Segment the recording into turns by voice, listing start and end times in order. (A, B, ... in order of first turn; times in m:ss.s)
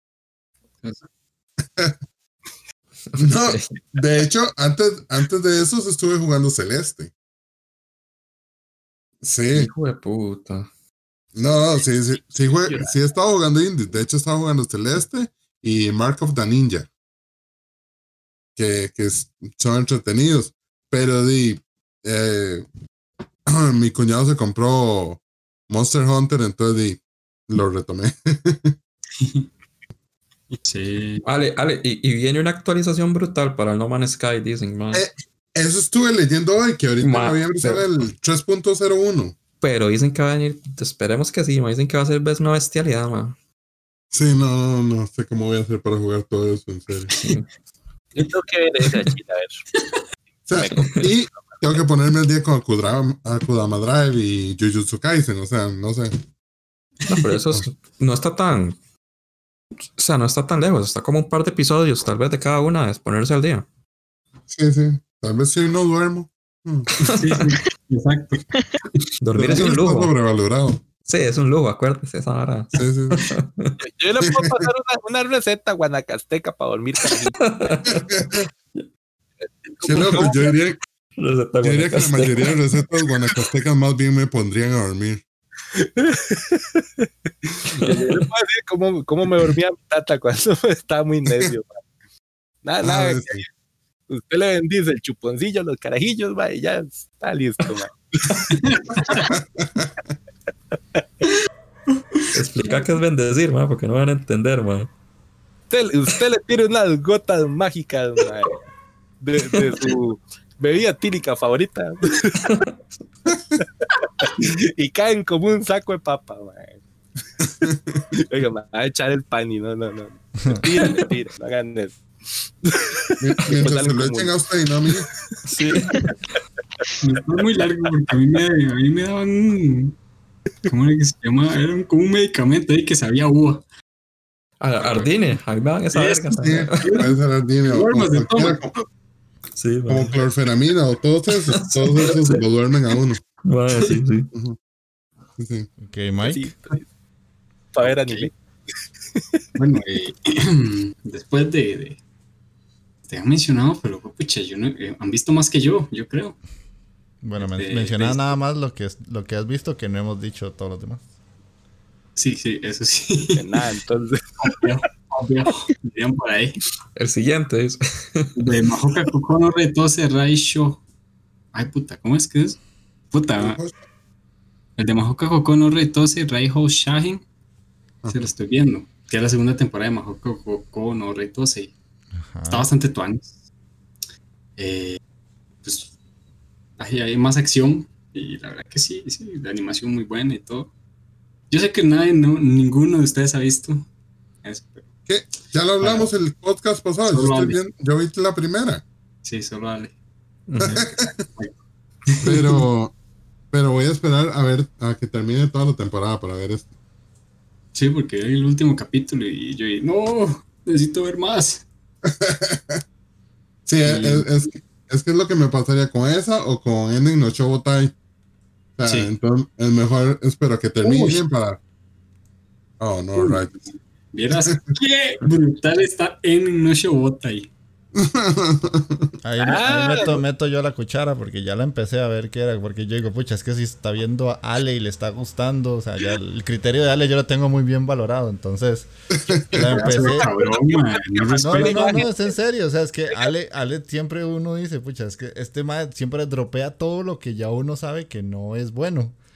0:03.1-0:03.8 A
0:03.2-0:07.1 B
0:09.2-0:09.7 B
0:09.5-0:10.7 A
0:11.3-0:16.9 B
0:12.5-0:12.9 C
0:18.6-0:22.7 B
0:23.5-0:28.7 B
0:29.2-0:29.5 D
0:30.5-0:31.2 D
0:31.2-0:35.0 A
0:34.9-0:39.4 B
0:37.0-0:37.8 A
0:39.6-0:43.4 A
0:44.1-0:47.1 B
0:47.2-0:47.4 A
0:48.1-0:49.6 C
0:49.8-0:50.0 D
0:50.5-0:56.2 B
0:50.5-0:51.6 C
0:57.1-0:57.3 D
0:57.1-0:58.8 A
1:00.0-1:03.6 A
1:04.5-1:07.1 B
1:07.0-1:07.5 A
1:07.2-1:08.4 D
1:09.2-1:10.1 A
1:09.3-1:10.8 B
1:11.0-1:13.8 A
1:12.7-1:13.2 B
1:13.8-1:17.7 C
1:14.2-1:14.6 B
1:17.4-1:18.8 A
1:18.1-1:18.4 B
1:19.8-1:20.5 C
1:19.8-1:20.8 B
1:21.2-1:22.6 A
1:21.6-1:25.2 B
1:25.7-1:31.8 C
1:27.8-1:28.2 A
1:32.6-1:33.4 C
1:32.8-1:33.4 B
1:34.1-1:37.9 C
1:38.5-1:39.3 D
1:39.3-1:39.9 B
1:42.1-1:42.8 D
1:42.3-1:44.9 A
1:45.7-1:48.6 C
1:49.2-1:52.5 C
1:53.8-1:56.8 C
1:57.6-1:58.0 B
1:58.2-2:02.0 C
2:02.6-2:04.4 C
2:03.2-2:05.1 B
2:05.5-2:05.9 A
2:07.0-2:10.0 D
2:10.7-2:13.6 D
2:14.6-2:16.8 A
2:14.8-2:15.1 D
2:15.9-2:18.6 D
2:16.4-2:18.8 B
2:19.6-2:20.2 A
2:19.9-2:23.2 B
2:21.3-2:22.4 A
2:23.4-2:24.3 A
2:25.4-2:25.7 B
2:25.8-2:26.5 E
2:26.2-2:26.9 C
2:27.7-2:28.3 C
2:27.8-2:28.3 D
2:29.1-2:29.4 C
2:29.6-2:32.0 D
2:33.1-2:36.4 D
2:37.2-2:41.0 E
2:37.4-2:38.3 D
2:42.2-2:43.6 D
2:43.4-2:44.2 C
2:44.4-2:46.6 D
2:47.0-2:48.3 A
2:48.4-2:50.8 D
2:51.5-2:52.6 D
2:53.1-2:53.6 D
2:53.3-2:53.7 B
2:54.8-2:57.2 D
2:58.1-3:01.7 D
3:02.3-3:02.7 E
3:02.5-3:03.3 D
3:04.6-3:05.0 D
3:05.6-3:05.9 D
3:06.8-3:10.7 D
3:11.5-3:13.9 D
3:14.4-3:14.9 D
3:15.1-3:18.8 B
3:15.8-3:16.1 D
3:17.1-3:17.6 D
3:19.2-3:19.9 D
3:20.5-3:20.8 A
3:20.6-3:21.5 D
3:20.7-3:21.2 B
3:22.1-3:22.6 D
3:22.2-3:22.9 B
3:23.5-3:26.6 B
3:27.7-3:31.6 D
3:32.0-3:32.8 B
3:33.6-3:37.9 B
3:33.8-3:34.3 D
3:38.8-3:41.6 B
3:38.8-3:39.1 D
3:40.8-3:41.2 D
3:42.8-3:43.6 B
3:43.2-3:43.4 D
3:44.1-3:47.5 D
3:44.4-3:44.7 B
3:48.0-3:49.1 B
3:49.2-3:58.9 E
3:49.4-3:50.2 C
3:59.3-3:59.6 B
3:59.5-4:00.3 E
3:59.7-4:02.0 D
3:59.8-4:02.3 C
4:01.4-4:09.2 E